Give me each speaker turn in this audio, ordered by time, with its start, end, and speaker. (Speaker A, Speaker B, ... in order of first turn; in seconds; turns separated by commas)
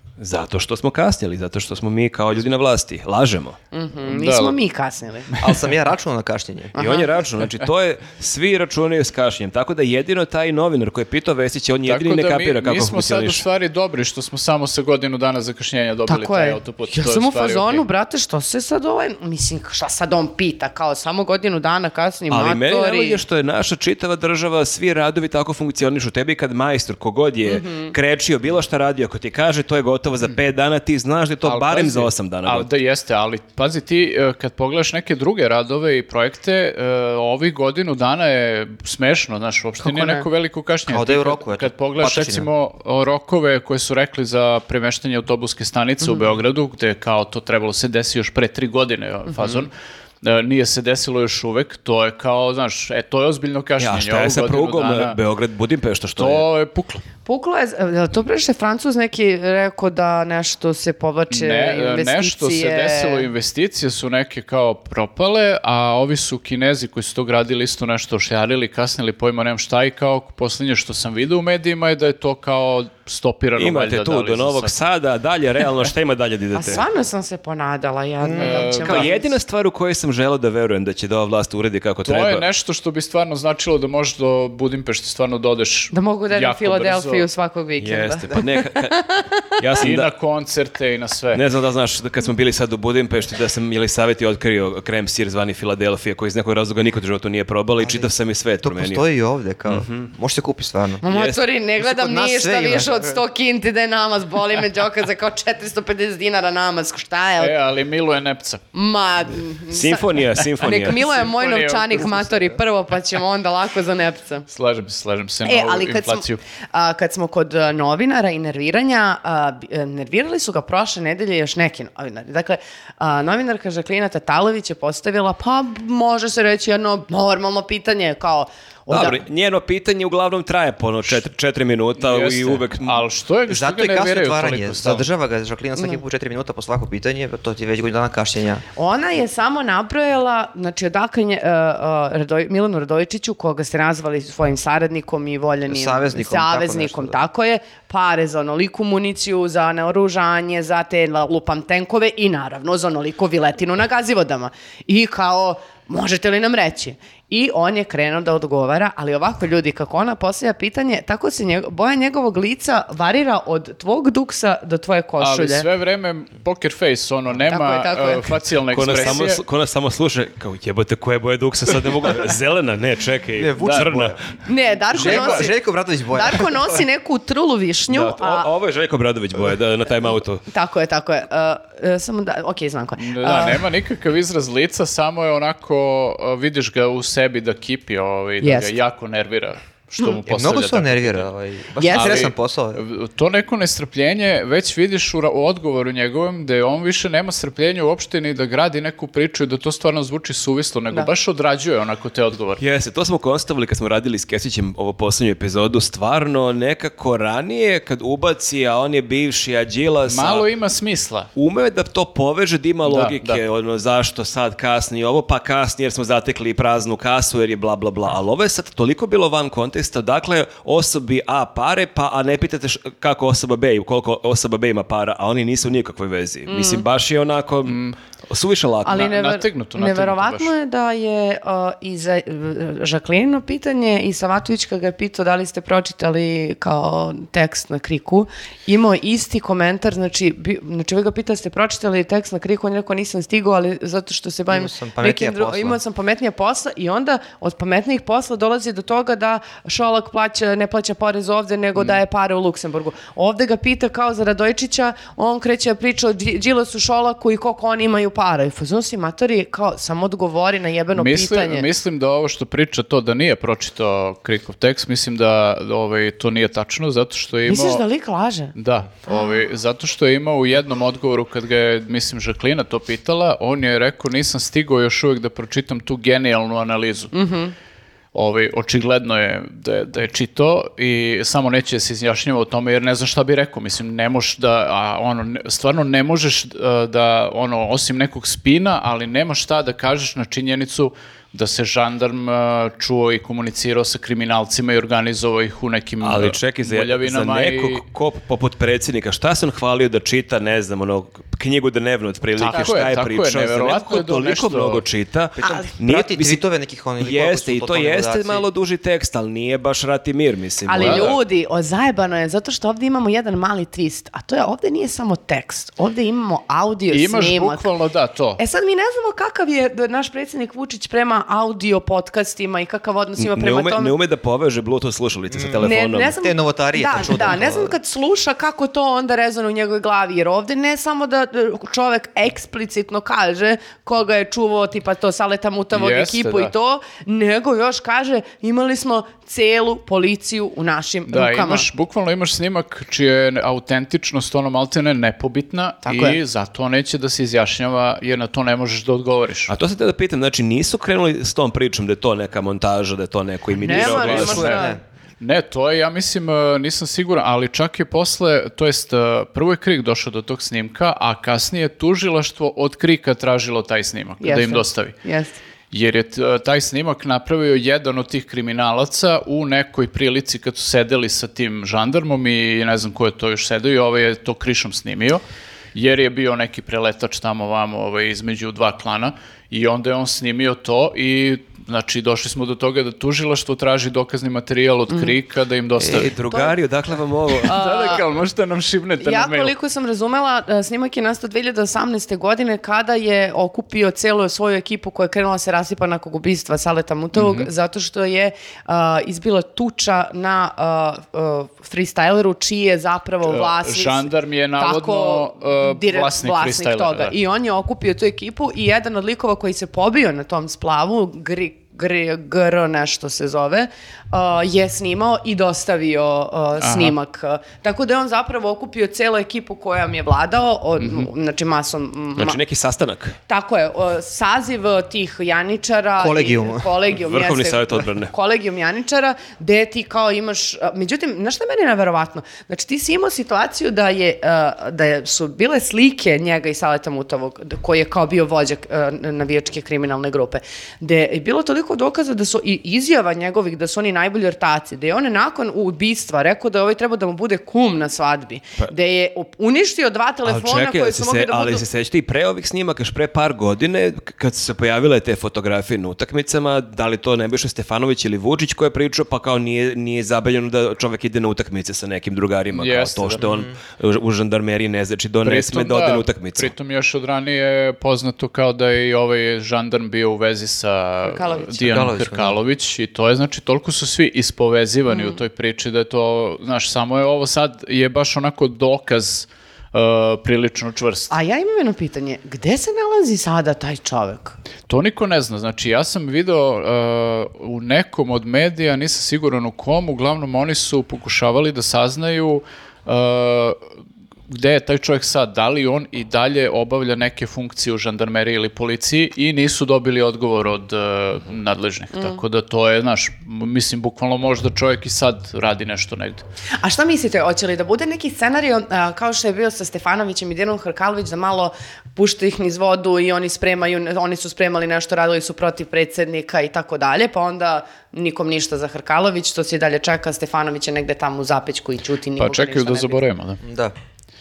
Speaker A: 0.2-3.6, Speaker B: 3.7-5.3, Speaker C: 4.1-4.5, Speaker D: 5.4-7.1, Speaker B: 6.8-7.0, Speaker A: 6.8-13.4, Speaker C: 11.9-17.8, Speaker B: 16.1-23.2, Speaker A: 22.3-32.7, Speaker B: 27.4-27.9, Speaker C: 31.4-55.2, Speaker B: 39.8-40.2, Speaker D: 40.9-42.5, Speaker B: 46.0-46.3, Speaker B: 49.3-49.6, Speaker A: 53.8-56.4, Speaker C: 56.2-57.0, Speaker B: 57.2-63.3, Speaker C: 61.3-74.7, Speaker A: 73.6-76.8, Speaker B: 76.5-79.3, Speaker D: 78.2-78.6, Speaker C: 78.4-79.1, Speaker A: 78.8-82.5, Speaker C: 82.0-87.2, Speaker B: 85.9-89.8, Speaker A: 87.8-89.0, Speaker A: 89.6-90.1, Speaker C: 89.8-91.4, Speaker A: 91.3-99.0, Speaker D: 97.8-98.1, Speaker D: 98.6-101.0, Speaker A: 99.7-100.1, Speaker B: 101.0-107.5, Speaker A: 101.1-101.4, Speaker D: 101.8-103.2, Speaker C: 107.4-108.6, Speaker B: 108.7-114.5, Speaker A: 109.7-111.0, Speaker C: 110.7-112.5, Speaker C: 114.5-116.4, Speaker B: 115.4-129.2, Speaker A: 128.9-133.0, Speaker C: 132.0-135.1, Speaker D: 133.5-138.6, Speaker B: 138.8-165.7, Speaker D: 145.7-147.2, Speaker C: 165.2-169.4, Speaker B: 167.5-168.4, Speaker A: 168.7-174.2, Speaker D: 173.4-174.2, Speaker C: 173.6-174.0, Speaker B: 174.4-175.6, Speaker D: 174.9-176.6, Speaker C: 174.9-175.5, Speaker B: 176.1-178.5, Speaker A: 177.9-180.4, Speaker B: 180.5-183.6, Speaker C: 183.0-191.3, Speaker B: 188.4-188.7, Speaker D: 190.3-192.8, Speaker B: 191.8-192.3, Speaker C: 191.9-202.6, Speaker A: 202.6-210.4, Speaker C: 210.1-211.3, Speaker A: 211.4-229.0, Speaker C: 212.8-213.4, Speaker B: 226.5-226.8, Speaker C: 227.6-227.9, Speaker B: 228.8-261.7, Speaker C: 228.9-230.5, Speaker D: 244.5-245.8, Speaker C: 260.9-267.8, Speaker B: 267.4-268.5, Speaker C: 268.5-277.1, Speaker B: 269.1-269.4, Speaker B: 277.1-277.5, Speaker C: 278.1-297.8, Speaker A: 296.0-306.4, Speaker C: 302.4-304.8, Speaker B: 302.5-302.8, Speaker D: 305.4-308.4, Speaker B: 305.4-305.7, Speaker A: 307.0-311.2, Speaker B: 310.6-317.7, Speaker C: 310.8-311.1, Speaker C: 316.9-318.4, Speaker B: 318.4-323.9, Speaker A: 323.2-326.1, Speaker D: 325.3-327.7, Speaker B: 325.6-341.6, Speaker C: 335.7-336.5, Speaker C: 341.1-349.5, Speaker B: 345.9-346.2, Speaker A: 349.5-354.6, Speaker B: 353.6-354.8, Speaker C: 353.6-354.6, Speaker D: 354.0-354.8, Speaker C: 355.2-364.9, Speaker B: 364.2-365.4, Speaker C: 365.7-375.2, Speaker C: 375.7-386.1, Speaker B: 384.9-385.1, Speaker A: 385.8-387.6, Speaker B: 386.3-386.6, Speaker B: 387.4-388.0, Speaker C: 387.4-389.5, Speaker B: 389.0-404.1, Speaker C: 397.1-397.5, Speaker C: 403.2-407.1, Speaker B: 404.6-422.4, Speaker C: 416.6-416.9, Speaker C: 420.8-421.1, Speaker A: 422.2-423.2, Speaker B: 423.3-451.6, Speaker D: 426.0-426.7, Speaker A: 426.9-428.1, Speaker A: 450.2-466.5, Speaker C: 462.5-463.2, Speaker D: 463.2-463.5, Speaker C: 465.2-481.1, Speaker B: 471.0-471.6, Speaker D: 471.6-472.4, Speaker B: 474.9-475.2, Speaker B: 481.1-484.4, Speaker C: 484.7-493.6, Speaker C: 494.3-506.2, Speaker B: 501.9-502.2, Speaker B: 506.6-523.0, Speaker C: 522.2-523.4, Speaker D: 523.4-523.7